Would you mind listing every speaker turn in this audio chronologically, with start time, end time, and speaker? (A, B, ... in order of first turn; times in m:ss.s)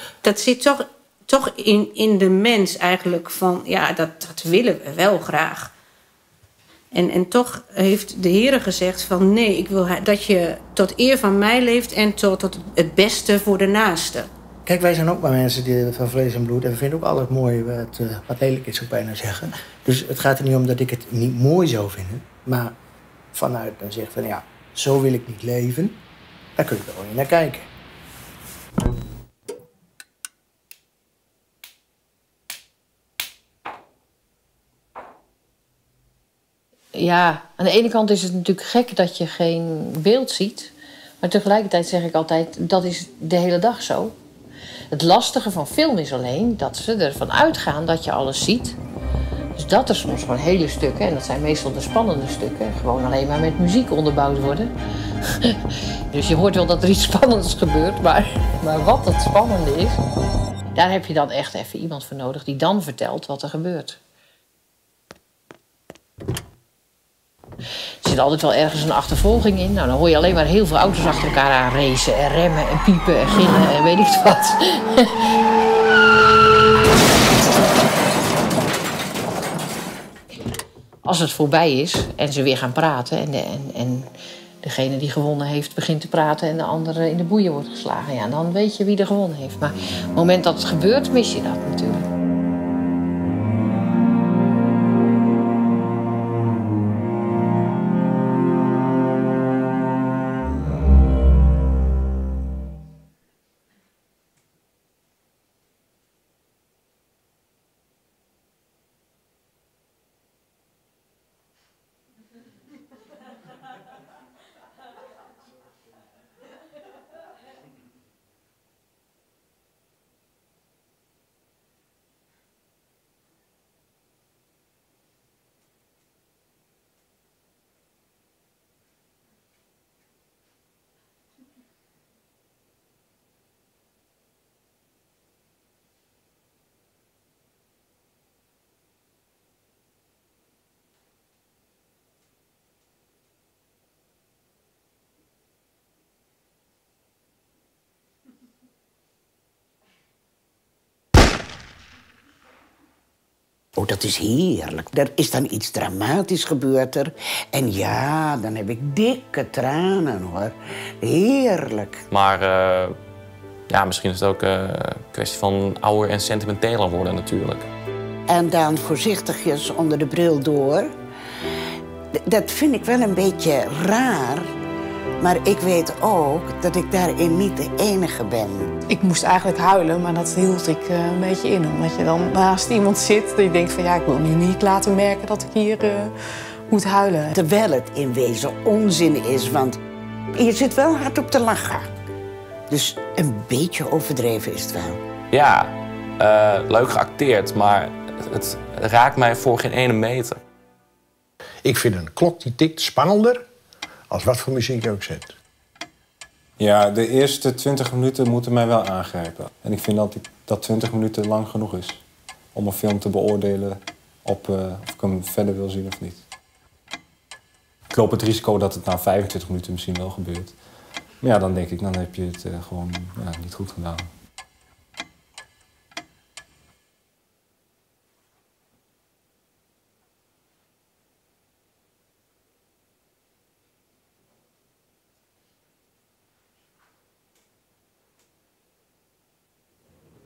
0:00.2-0:05.7 A
0:06.9-0:14.3 A
0:14.6-0:22.7 B
0:23.3-0:26.0 B
0:26.6-0:27.7 B
0:36.9-0:44.1 C
0:44.9-0:48.8 C
0:49.6-0:54.7 C
0:56.1-1:00.0 C
1:00.7-1:04.0 C
1:08.0-1:15.1 C
1:21.0-1:24.1 C
1:24.6-1:32.0 C
2:33.8-2:42.0 D
2:42.1-2:43.0 E
2:43.7-2:47.7 E
2:48.3-2:50.9 D
2:52.2-2:54.5 D
2:55.2-2:58.7 D
2:58.9-3:06.1 F
3:06.7-3:07.3 F
3:07.3-3:09.8 D
3:10.3-3:12.0 D
3:12.7-3:15.0 D
3:15.3-3:20.4 E
3:21.6-3:23.4 G
3:24.1-3:25.3 G
3:26.6-3:32.0 H
3:32.5-3:36.2 H
3:37.9-3:40.6 H
3:41.2-3:44.1 H